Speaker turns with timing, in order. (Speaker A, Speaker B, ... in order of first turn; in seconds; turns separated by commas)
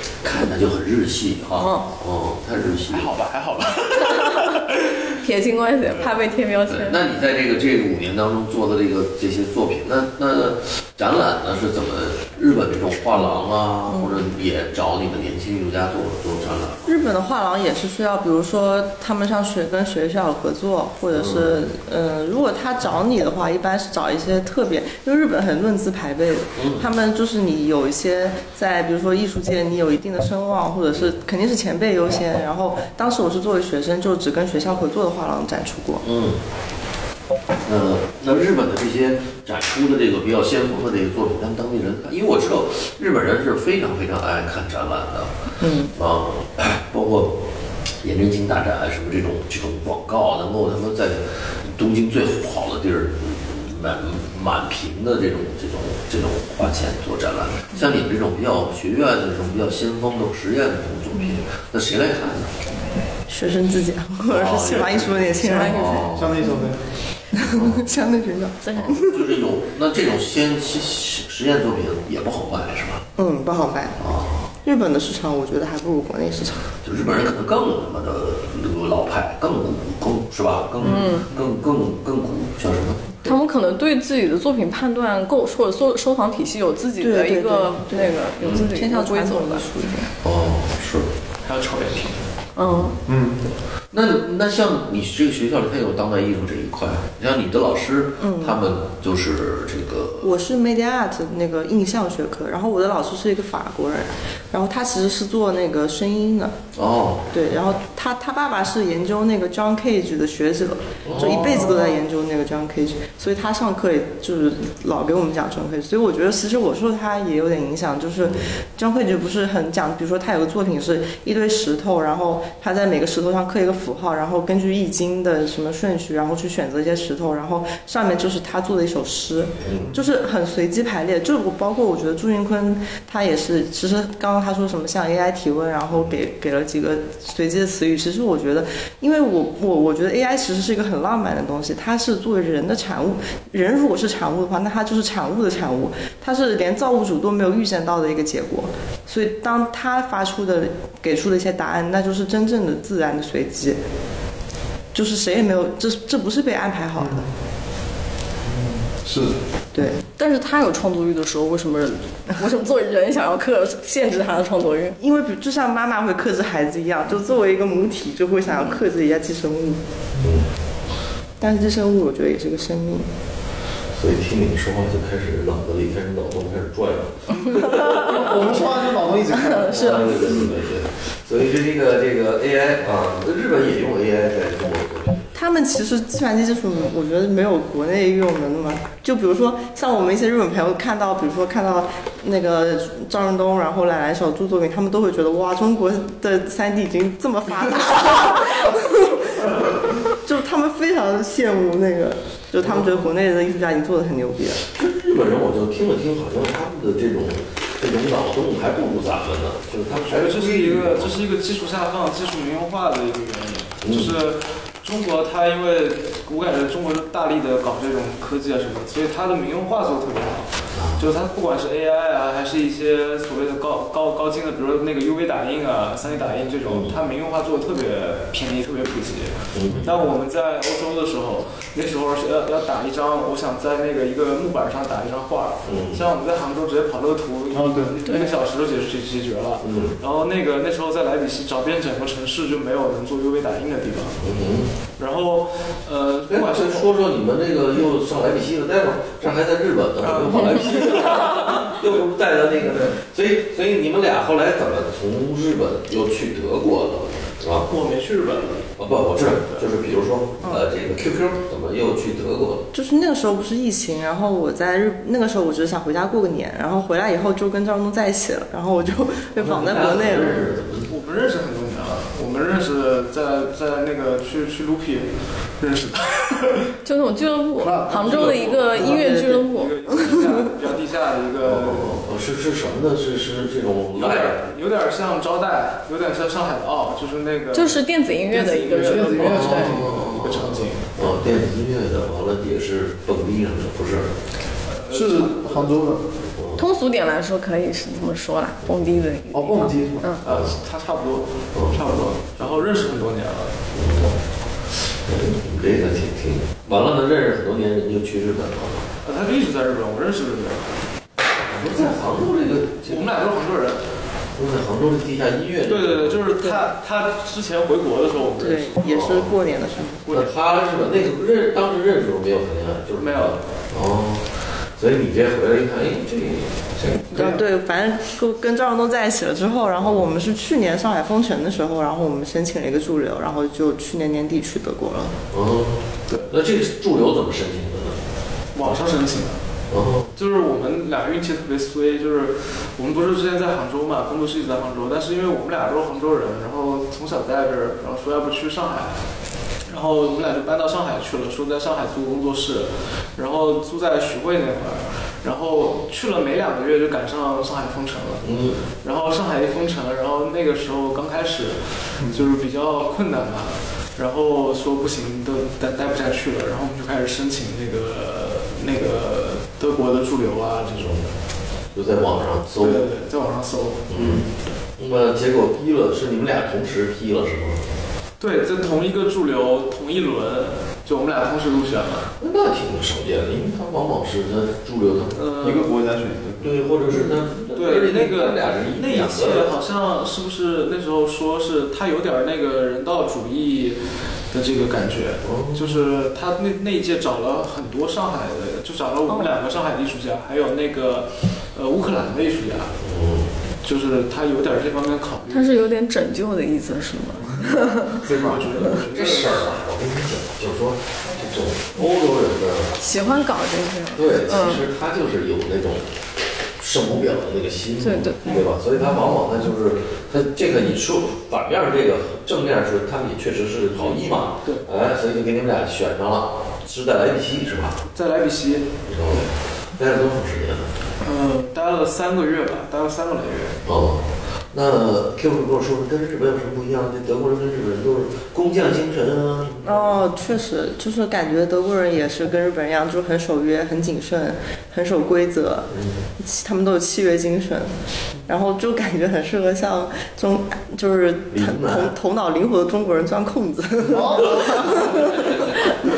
Speaker A: 0.2-3.1, Speaker B: 1.6-1.9, Speaker C: 2.9-5.2, Speaker B: 4.0-4.5, Speaker B: 5.2-7.0, Speaker A: 6.7-17.0, Speaker D: 16.9-36.0, Speaker A: 21.1-21.6, Speaker A: 26.6-26.9, Speaker A: 36.0-36.4, Speaker A: 37.6-45.3, Speaker D: 45.6-46.0, Speaker A: 46.0-47.4, Speaker A: 48.0-62.5, Speaker D: 63.3-66.0, Speaker A: 64.3-66.4, Speaker B: 65.4-66.7, Speaker E: 66.1-66.8, Speaker D: 67.3-69.2, Speaker A: 67.4-67.8, Speaker B: 68.6-69.0, Speaker A: 68.7-73.0, Speaker D: 73.2-74.0, Speaker A: 74.0-74.5, Speaker D: 74.6-76.8, Speaker A: 76.8-83.2, Speaker B: 80.8-81.3, Speaker B: 83.2-89.7, Speaker D: 87.0-90.1, Speaker A: 90.2-91.1, Speaker C: 91.4-92.2, Speaker B: 92.6-93.0, Speaker A: 92.6-93.0, Speaker E: 93.1-93.4, Speaker A: 93.9-100.3, Speaker D: 98.2-98.6, Speaker D: 100.2-106.6, Speaker A: 106.8-107.3, Speaker D: 107.3-153.8, Speaker A: 111.0-111.8, Speaker A: 118.2-118.5, Speaker A: 129.6-130.0, Speaker D: 154.9-157.3, Speaker E: 157.0-157.3, Speaker E: 158.4-159.3, Speaker D: 159.7-160.0, Speaker B: 160.1-165.0, Speaker D: 165.0-169.8, Speaker A: 170.2-170.5, Speaker D: 171.4-173.1, Speaker A: 173.9-178.6, Speaker E: 177.9-180.0, Speaker A: 179.6-185.3, Speaker B: 179.7-180.1, Speaker D: 185.3-204.6, Speaker A: 204.7-211.1, Speaker C: 210.0-244.2, Speaker A: 213.8-214.2, Speaker A: 220.7-221.1, Speaker A: 226.7-227.0, Speaker A: 229.5-229.9, Speaker A: 235.7-236.1, Speaker E: 237.5-238.0, Speaker B: 238.1-238.4, Speaker A: 239.6-239.9, Speaker A: 244.2-244.7, Speaker C: 245.0-246.9, Speaker A: 246.3-257.7, Speaker C: 250.0-251.8, Speaker C: 257.7-258.6, Speaker A: 258.8-262.7, Speaker C: 259.3-259.7, Speaker D: 262.7-270.5, Speaker A: 269.4-270.9, Speaker C: 270.9-276.7, Speaker B: 276.8-279.8, Speaker E: 277.6-278.8, Speaker C: 277.9-281.9, Speaker D: 278.8-280.3, Speaker A: 281.4-284.4, Speaker C: 283.9-290.9, Speaker B: 287.5-289.8, Speaker E: 288.8-289.7, Speaker A: 289.2-294.1, Speaker C: 294.7-295.8, Speaker E: 294.9-296.1, Speaker A: 296.4-296.6, Speaker B: 296.6-300.2, Speaker A: 298.6-299.1, Speaker E: 299.3-300.1, Speaker C: 300.2-303.6, Speaker A: 300.2-300.6, Speaker A: 301.5-302.6, Speaker A: 303.7-304.2, Speaker A: 305.0-308.9, Speaker C: 309.0-310.8, Speaker A: 311.5-313.1, Speaker C: 312.9-313.9, Speaker A: 314.4-316.2, Speaker C: 315.7-318.9, Speaker D: 318.4-320.1, Speaker A: 318.8-319.3, Speaker C: 320.1-320.3, Speaker A: 320.1-327.2, Speaker C: 323.0-323.4, Speaker E: 327.1-327.4, Speaker D: 327.1-335.2, Speaker A: 335.3-338.0, Speaker C: 338.5-339.4, Speaker A: 339.7-340.1, Speaker C: 340.1-349.0, Speaker C: 349.7-358.3, Speaker A: 358.2-358.6, Speaker C: 358.8-371.1, Speaker E: 362.0-362.3, Speaker A: 370.8-371.0, Speaker A: 371.7-372.9, Speaker C: 372.6-374.2, Speaker A: 373.9-374.2, Speaker A: 374.8-377.6, Speaker C: 378.2-382.1, Speaker A: 382.2-385.2, Speaker C: 385.1-385.7, Speaker E: 385.4-386.6, Speaker A: 386.4-389.5, Speaker C: 387.5-402.8, Speaker A: 395.2-395.9, Speaker A: 402.8-403.3, Speaker C: 403.6-405.6, Speaker B: 405.3-408.0, Speaker C: 407.9-409.6, Speaker E: 408.0-408.4, Speaker A: 408.6-413.2, Speaker B: 412.8-414.6, Speaker A: 413.9-415.9, Speaker A: 416.6-427.8, Speaker B: 417.8-418.4, Speaker C: 423.8-424.6, Speaker C: 427.9-429.3, Speaker A: 428.9-430.7, Speaker C: 431.0-433.6, Speaker A: 433.6-439.9, Speaker D: 439.6-447.7, Speaker A: 445.7-446.0, Speaker D: 448.3-455.5, Speaker A: 451.3-451.9, Speaker E: 453.9-454.7, Speaker A: 454.3-455.5